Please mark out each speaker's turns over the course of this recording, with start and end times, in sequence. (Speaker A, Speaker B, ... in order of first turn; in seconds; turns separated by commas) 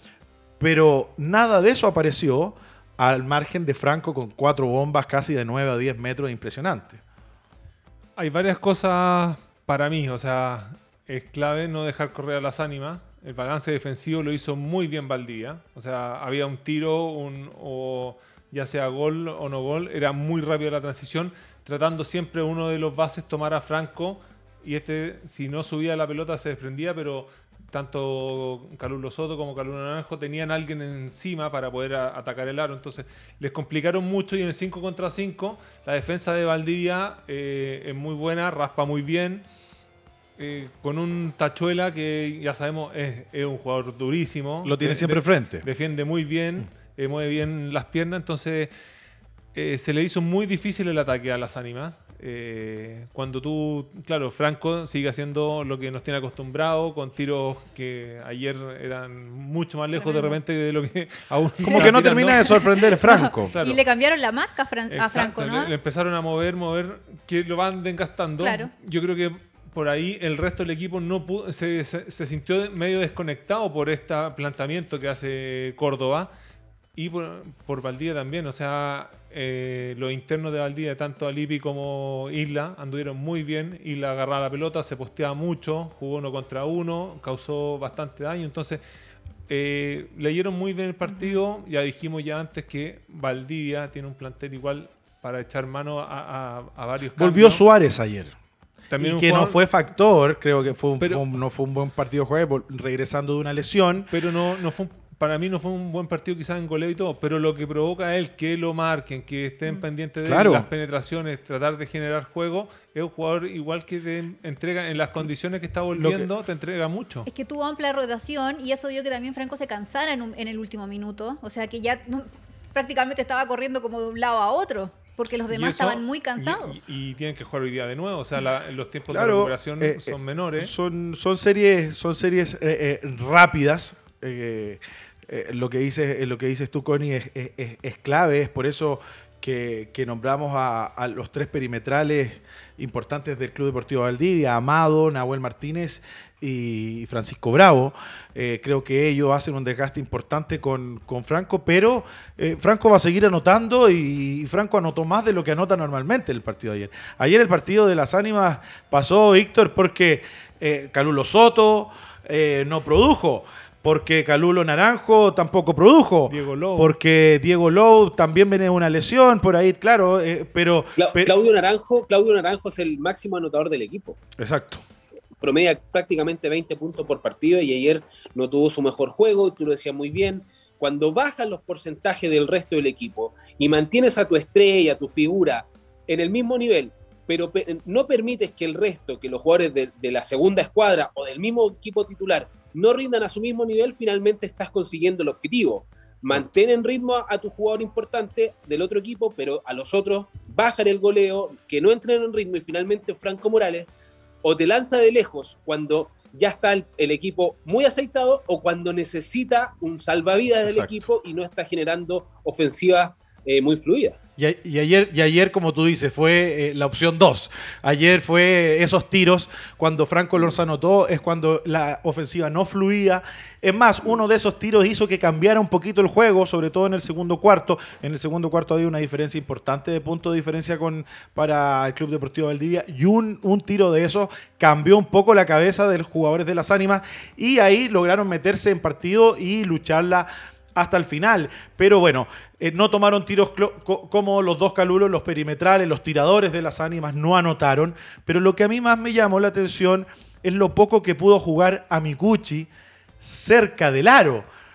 Speaker A: 0.6-7.0, Speaker B: 8.2-39.4, Speaker B: 40.4-48.7, Speaker A: 44.6-45.7, Speaker B: 49.5-62.7, Speaker C: 59.9-60.4, Speaker A: 61.7-63.5, Speaker C: 61.7-65.7, Speaker B: 63.5-63.8, Speaker B: 64.9-76.3, Speaker C: 68.4-68.7, Speaker B: 77.0-88.8, Speaker B: 89.5-97.6, Speaker C: 91.1-91.4, Speaker A: 97.2-98.3, Speaker B: 98.9-99.6, Speaker A: 99.0-104.1, Speaker B: 101.0-101.3, Speaker B: 104.1-117.3, Speaker A: 110.2-110.7, Speaker A: 115.9-116.3, Speaker C: 117.3-126.8, Speaker B: 125.5-130.7, Speaker A: 129.1-171.3, Speaker B: 166.3-166.9, Speaker D: 171.0-174.2, Speaker A: 174.4-174.8, Speaker D: 175.4-203.9, Speaker D: 204.4-214.2, Speaker A: 210.6-211.1, Speaker A: 214.4-252.7, Speaker A: 253.2-254.5